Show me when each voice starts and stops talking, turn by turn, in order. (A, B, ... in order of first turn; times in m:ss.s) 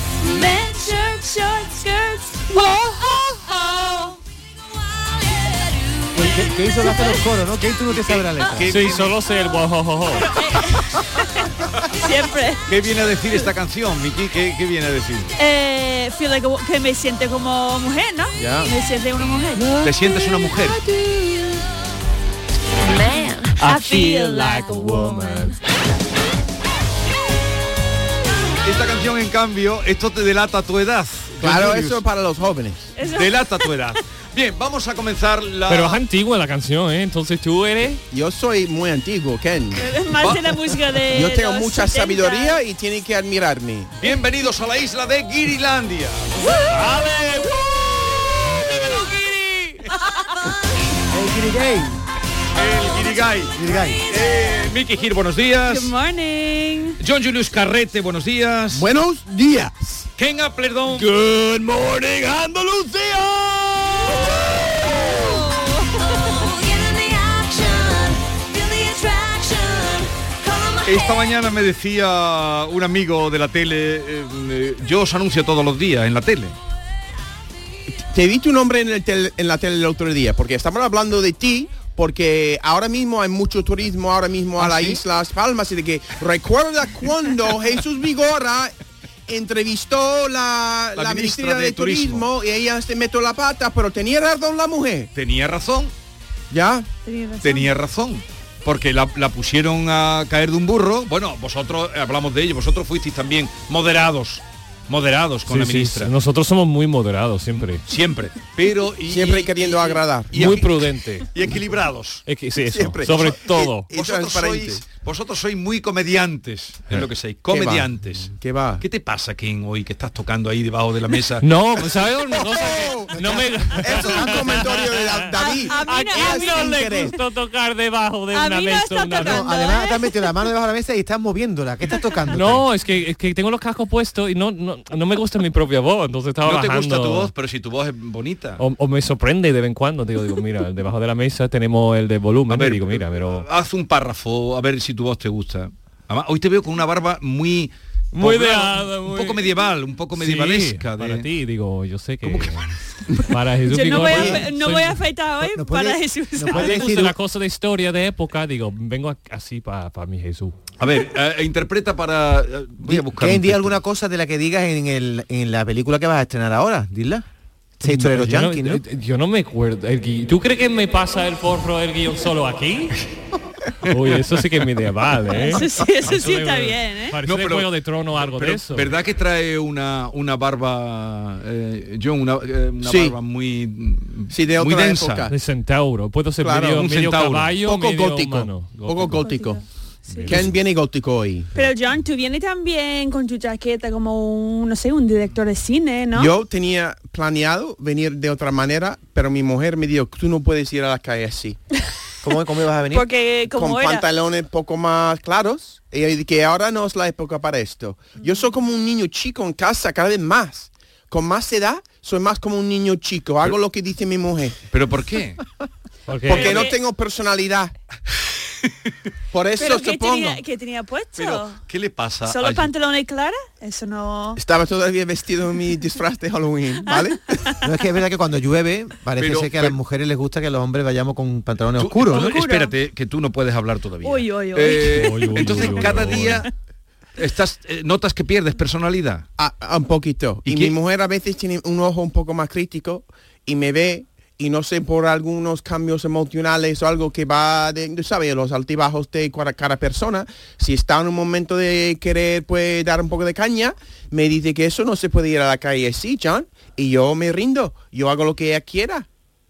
0:00.2-0:02.5 A
0:05.1-0:06.1 B
0:06.1-0:08.9 C
0:06.9-0:07.2 A
0:07.9-0:09.1 D
0:08.6-0:10.3 E
0:10.2-0:10.9 A
0:12.0-0:12.6 A
0:12.7-0:15.3 D
0:15.4-0:19.8 A
0:18.4-0:18.7 F
0:19.8-0:20.8 D
0:20.7-0:21.7 B
0:22.8-0:25.5 B
0:23.6-0:25.6 E
0:28.6-0:32.0 D
0:31.4-0:32.9 F
0:33.0-0:33.3 A
0:33.0-0:36.0 D
0:35.7-0:38.0 E
0:38.1-0:39.9 F
0:39.8-0:42.6 A
0:40.1-0:40.8 D
0:41.1-0:43.9 F
0:44.0-0:46.3 D
0:46.7-0:47.5 E
0:51.1-0:52.0 C
0:52.6-0:53.5 D
0:53.5-0:54.0 C
0:54.1-0:55.9 D
0:55.6-0:57.0 A
0:57.0-0:58.9 D
0:58.7-1:00.0 F
1:00.2-1:01.1 D
1:01.2-1:03.3 F
1:06.0-1:11.1 B
1:10.8-1:16.6 D
1:18.1-1:28.7 F
1:24.6-1:25.0 D
1:29.3-1:35.1 F
1:30.9-1:32.3 D
1:35.1-1:35.9 D
1:36.5-1:36.9 F
1:37.0-1:37.7 A
1:37.4-1:46.1 D
1:45.5-1:47.8 E
1:47.8-1:50.8 D
1:49.1-1:50.6 F
1:50.3-1:51.3 E
1:51.3-1:52.2 D
1:52.2-1:53.9 E
1:52.7-1:54.8 F
1:53.9-2:01.4 D
1:57.5-1:58.8 F
2:01.4-2:09.6 E
2:02.5-2:07.1 F
2:04.0-2:04.5 C
2:05.4-2:07.1 A
2:08.3-2:10.3 A
2:09.2-2:12.6 C
2:12.3-2:17.3 E
2:16.4-2:18.6 D
2:18.6-2:23.4 E
2:22.5-2:31.2 D
2:28.1-2:29.5 E
2:30.2-2:32.6 E
2:32.2-2:32.7 D
2:33.3-2:35.0 E
2:33.7-2:36.9 A
2:34.0-2:34.4 C
2:35.4-2:37.2 C
2:36.5-2:40.5 E
2:40.8-2:43.8 D
2:42.8-2:47.2 C
2:47.8-2:48.8 C
2:47.8-2:52.9 E
2:53.9-2:58.9 E
2:55.3-2:57.2 A
2:57.2-3:05.3 D
3:02.8-3:03.1 F
3:04.3-3:05.3 F
3:05.3-3:09.3 E
3:06.4-3:06.8 F
3:06.7-3:07.6 D
3:07.7-3:09.6 F
3:09.2-3:10.3 A
3:10.1-3:10.6 E
3:10.3-3:11.6 F
3:11.5-3:16.3 A
3:16.1-3:21.6 F
3:22.2-3:23.1 C
3:22.9-3:24.0 A
3:23.5-3:34.6 F
3:34.7-3:35.4 D
3:36.1-3:36.6 E
3:36.3-3:36.8 A
3:36.3-3:37.7 F
3:39.3-3:40.4 F
3:39.6-3:41.6 A
3:41.2-3:42.7 D
3:42.2-3:44.4 A
3:44.4-3:47.4 F
3:46.9-3:47.5 A
3:47.6-3:52.3 C
3:49.2-3:49.8 D
3:51.8-3:56.5 D
3:52.1-3:52.7 A
3:54.0-3:56.3 A
3:54.8-3:56.4 E
3:57.2-3:59.2 D
3:59.4-4:19.0 F
4:00.4-4:00.8 D